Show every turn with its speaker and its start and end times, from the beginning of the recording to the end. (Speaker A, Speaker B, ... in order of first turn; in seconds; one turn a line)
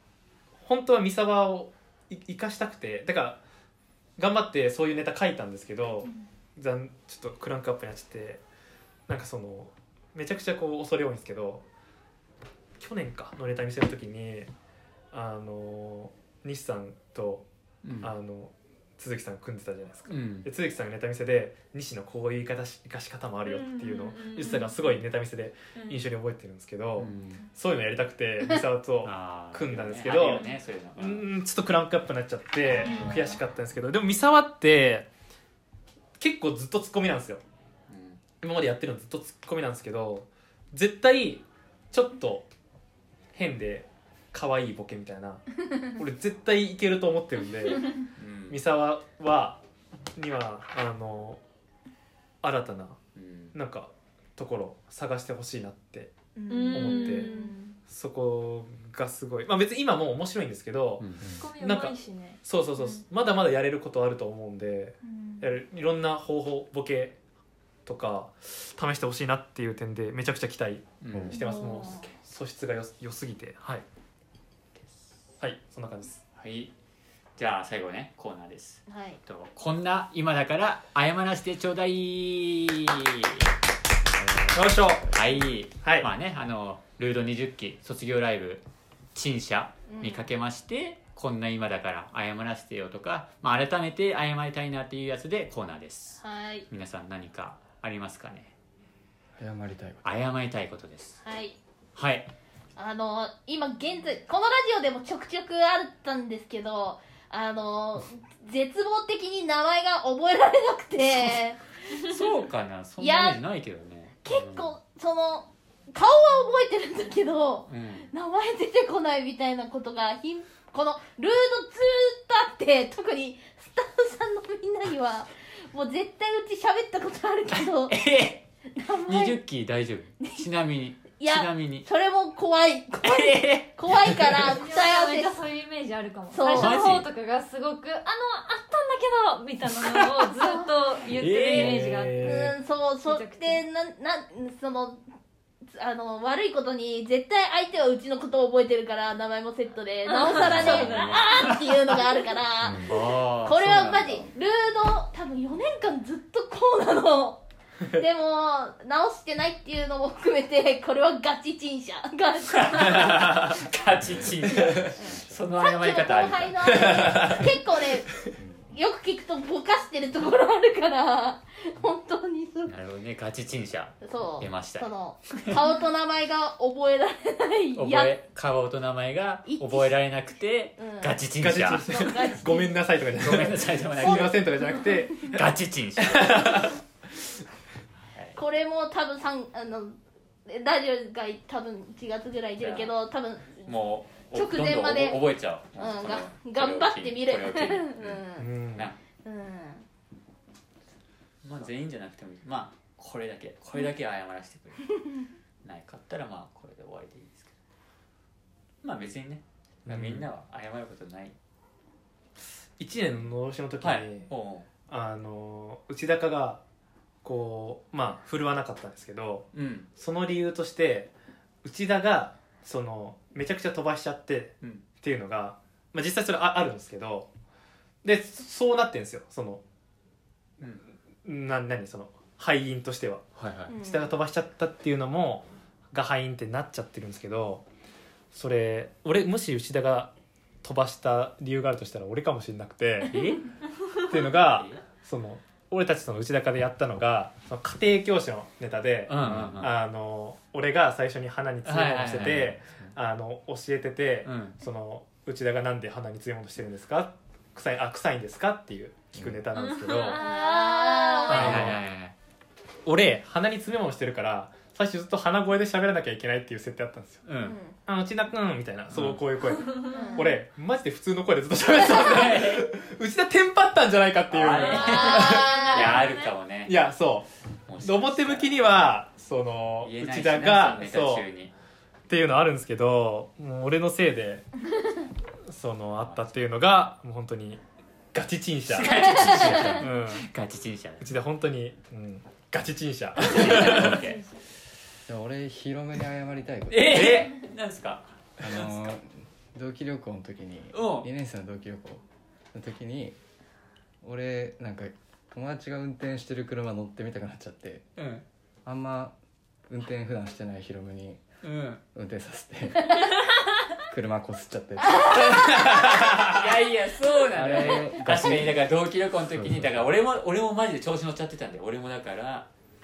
Speaker A: 0.6-3.4
Speaker A: 4.2-8.4
Speaker A: 9.1-11.6
Speaker A: 12.8-14.5
Speaker A: 15.1-17.5
Speaker B: 17.8-18.1
Speaker A: 18.0-30.4
Speaker B: 20.1-20.5
Speaker C: 23.4-25.0
Speaker C: 25.7-26.0
Speaker B: 27.0-27.4
Speaker B: 29.0-31.3
Speaker A: 31.0-35.1
Speaker C: 32.9-33.3
Speaker A: 36.2-37.4
Speaker B: 37.9-38.2
Speaker A: 38.4-42.5
Speaker A: 43.3-47.9
Speaker B: 48.2-48.6
Speaker A: 48.5-49.6
Speaker A: 50.1-51.4
Speaker A: 52.4-53.0
Speaker B: 53.1-53.5
Speaker A: 53.5-56.1
Speaker D: 56.4-57.8
Speaker C: 56.5-57.5
Speaker A: 56.7-57.3
Speaker A: 57.9-67.2
Speaker B: 61.0-61.3
Speaker C: 61.4-63.0
Speaker C: 65.0-65.5
Speaker A: 67.8-73.8
Speaker B: 71.0-71.4
Speaker E: 71.1-71.4
Speaker C: 71.4-72.0
Speaker D: 71.4-72.1
Speaker A: 75.4-76.2
Speaker B: 76.3-76.7
Speaker B: 77.4-83.5
Speaker D: 78.9-79.2
Speaker B: 84.2-98.5
Speaker A: 84.5-85.1
Speaker A: 85.8-86.1
Speaker D: 89.9-90.3
Speaker D: 96.2-96.7
Speaker E: 99.4-100.0
Speaker B: 100.0-101.2
Speaker D: 101.2-101.6
Speaker B: 102.0-102.3
Speaker D: 102.8-112.0
Speaker B: 112.0-114.7
Speaker D: 113.0-113.4
Speaker D: 114.2-128.0
Speaker B: 117.7-118.1
Speaker B: 127.5-128.4
Speaker D: 128.7-129.4
Speaker B: 129.1-131.9
Speaker D: 131.2-135.4
Speaker B: 133.0-134.5
Speaker C: 134.6-142.5
Speaker D: 136.3-137.0
Speaker B: 136.6-137.1
Speaker B: 139.7-140.1
Speaker D: 140.4-140.7
Speaker B: 141.1-142.3
Speaker A: 141.5-142.5
Speaker D: 142.2-145.0
Speaker C: 143.0-143.6
Speaker D: 145.7-163.3
Speaker C: 150.1-151.2
Speaker B: 150.4-151.7
Speaker B: 152.7-154.3
Speaker B: 162.5-167.4
Speaker A: 163.0-163.6
Speaker E: 164.6-165.4
Speaker D: 165.0-172.7
Speaker A: 166.7-167.4
Speaker E: 168.3-168.7
Speaker B: 172.7-175.6
Speaker D: 174.0-178.1
Speaker B: 177.7-181.9
Speaker D: 179.4-179.9
Speaker D: 180.8-181.3
Speaker A: 181.4-185.4
Speaker D: 181.8-182.8
Speaker B: 183.2-184.3
Speaker D: 184.0-184.9
Speaker B: 185.2-186.7
Speaker A: 186.0-186.8
Speaker B: 188.1-188.4
Speaker D: 188.3-195.2
Speaker B: 192.6-192.9
Speaker B: 193.6-199.0
Speaker D: 195.7-198.5
Speaker A: 198.4-198.9
Speaker D: 199.2-199.8
Speaker B: 201.4-204.9
Speaker B: 205.6-207.6
Speaker B: 208.8-211.3
Speaker A: 209.8-210.3
Speaker A: 212.8-214.3
Speaker B: 213.8-214.7
Speaker A: 214.9-216.6
Speaker A: 217.2-221.1
Speaker B: 219.5-219.9
Speaker A: 221.6-227.3
Speaker A: 228.0-229.6
Speaker A: 231.2-237.6
Speaker B: 233.3-233.7
Speaker D: 233.7-234.1
Speaker A: 238.3-243.1
Speaker B: 243.1-243.6
Speaker A: 244.1-260.2
Speaker B: 244.4-244.8
Speaker B: 249.1-249.8
Speaker B: 251.6-252.9
Speaker B: 254.2-254.6
Speaker E: 259.1-259.4
Speaker C: 259.6-261.4
Speaker D: 260.1-261.6
Speaker A: 261.3-261.8
Speaker B: 261.3-262.1
Speaker A: 262.9-267.3
Speaker B: 267.3-267.6
Speaker D: 267.4-267.8
Speaker A: 267.9-275.6
Speaker B: 268.9-269.2
Speaker C: 269.6-270.3
Speaker D: 269.9-270.4
Speaker B: 271.8-272.7
Speaker B: 274.3-276.8
Speaker C: 274.6-276.3
Speaker D: 274.6-276.1
Speaker A: 276.6-277.3
Speaker B: 277.6-278.6
Speaker A: 277.8-281.3
Speaker B: 279.8-281.5
Speaker A: 282.1-284.4
Speaker A: 285.5-287.6
Speaker B: 286.0-286.3
Speaker A: 288.1-290.3
Speaker B: 288.7-291.1
Speaker D: 289.4-289.8
Speaker A: 291.0-294.0
Speaker B: 293.2-294.2
Speaker C: 293.9-294.3
Speaker E: 295.1-297.2
Speaker B: 296.7-298.9
Speaker A: 296.9-297.4
Speaker E: 298.4-303.2
Speaker B: 300.7-301.1
Speaker E: 304.0-307.9
Speaker B: 307.9-308.2
Speaker E: 308.6-309.1
Speaker E: 309.7-311.2
Speaker B: 311.4-311.8
Speaker E: 311.9-313.0
Speaker E: 313.8-315.4
Speaker A: 315.3-316.4
Speaker B: 315.9-322.5
Speaker E: 317.3-318.6
Speaker E: 319.3-319.9